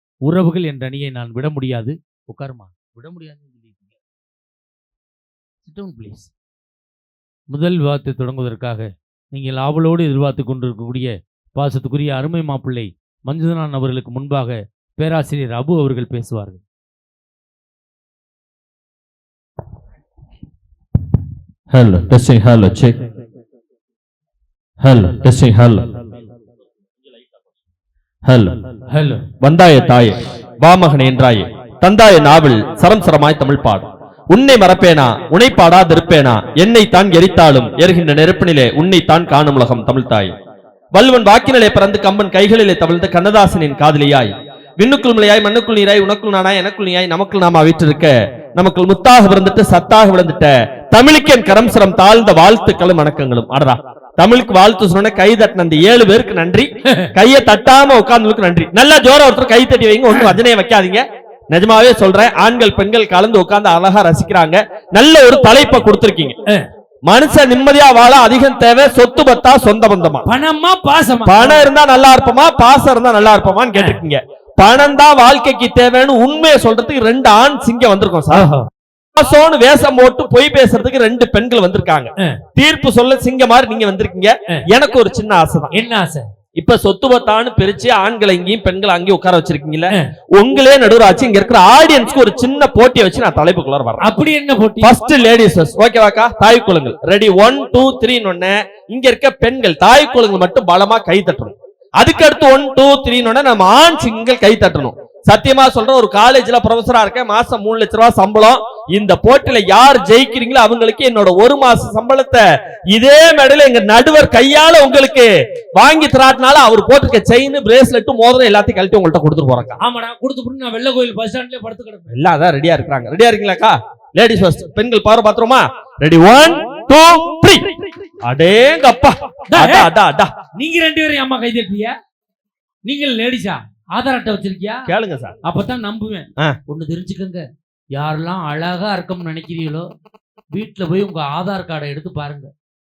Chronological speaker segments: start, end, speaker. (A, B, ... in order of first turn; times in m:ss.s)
0:00.2-0:04.0 A
0:05.6-0:06.3 A
0:07.5-0:16.6 A
0:21.7-0:23.0 B
0:24.8-0:25.9 B
0:28.3-0:28.6 B
0:28.9-0:29.2 A
0:29.4-0:40.3 B
0:40.9-1:06.4 B
0:56.9-0:57.1 A
1:07.1-1:10.3 B
1:10.2-1:11.7 A
1:11.2-1:18.5 B
1:18.3-1:18.7 A
1:19.2-1:25.7 B
1:25.7-1:26.3 A
1:26.6-1:34.0 B
1:34.0-1:34.9 A
1:34.8-1:59.8 B
1:59.8-2:02.1 A
2:02.1-2:10.3 B
2:09.5-2:09.9 A
2:10.5-2:11.9 A
2:12.8-2:14.9 A
2:14.9-2:15.4 B
2:15.4-2:19.9 A
2:20.5-2:22.5 A